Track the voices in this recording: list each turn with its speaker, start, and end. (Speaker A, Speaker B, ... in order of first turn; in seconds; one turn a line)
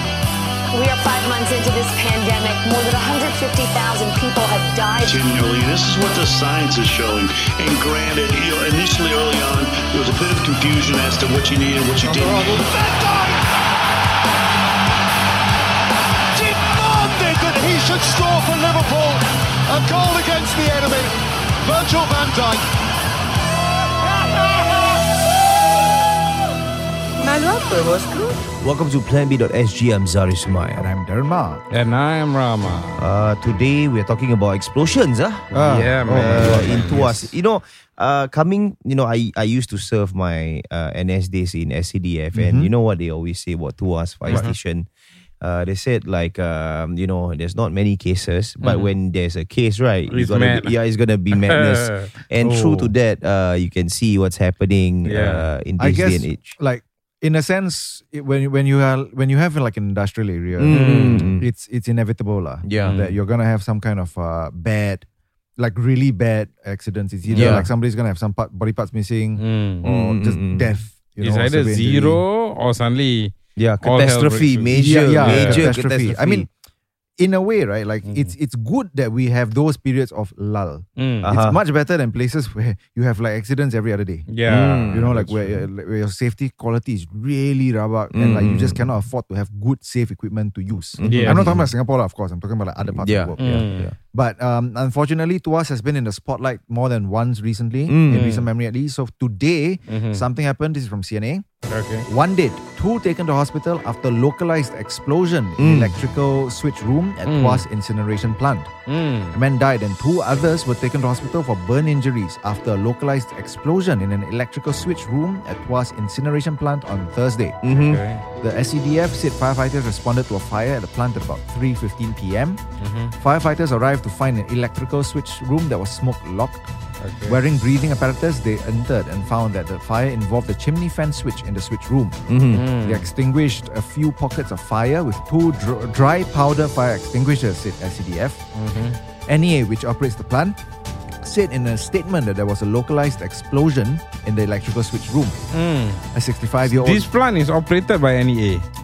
Speaker A: 0.7-5.4
Speaker B: 5.0-12.1
Speaker A: 11.9-12.7
Speaker C: 12.0-13.4
Speaker C: 16.3-22.7
Speaker C: 24.1-24.6
Speaker D: 27.2-30.9
Speaker E: 30.7-31.6
Speaker F: 31.7-33.1
Speaker D: 33.0-44.9
Speaker E: 35.5-37.2
Speaker F: 35.5-37.2
Speaker E: 42.3-42.7
Speaker E: 44.2-44.5
Speaker F: 44.3-44.5
Speaker D: 45.4-56.5
Speaker F: 48.6-48.9
Speaker F: 50.1-50.8
Speaker F: 51.3-52.1
Speaker E: 52.4-52.9
Speaker F: 55.0-55.5
Speaker E: 55.8-65.0
Speaker D: 60.5-61.5
Speaker F: 60.7-61.3
Speaker D: 62.6-63.0
Speaker F: 62.8-63.2
Speaker E: 65.6-72.2
Speaker F: 67.2-67.6
Speaker D: 67.3-67.7
Speaker F: 69.4-69.8
Speaker D: 69.8-70.8
Speaker F: 71.2-75.7
Speaker D: 73.5-76.5
Speaker E: 74.7-76.5
Speaker E: 77.2-84.4
Speaker F: 78.0-78.3
Speaker F: 81.0-81.3
Speaker D: 81.2-81.6
Speaker F: 84.3-85.6
Speaker D: 84.4-85.3
Speaker E: 84.9-101.4
Speaker D: 88.1-88.9
Speaker D: 91.0-91.7
Speaker F: 91.0-91.6
Speaker D: 92.8-94.0
Speaker F: 93.4-93.9
Speaker D: 97.9-98.3
Speaker F: 98.1-98.5
Speaker F: 99.9-100.2
Speaker F: 101.7-102.0
Speaker E: 102.1-108.7
Speaker D: 105.6-106.0
Speaker F: 107.2-107.6
Speaker F: 108.9-109.4
Speaker E: 109.3-117.6
Speaker D: 117.6-118.0
Speaker F: 117.7-118.2
Speaker E: 118.4-122.6
Speaker F: 122.8-123.1
Speaker E: 123.2-126.7
Speaker F: 127.0-127.4
Speaker E: 127.2-138.4
Speaker D: 132.3-132.7
Speaker F: 132.5-133.1
Speaker F: 138.5-139.0
Speaker E: 139.3-140.6
Speaker E: 141.2-145.4
Speaker F: 145.5-146.1
Speaker E: 146.1-147.1
Speaker F: 146.6-148.7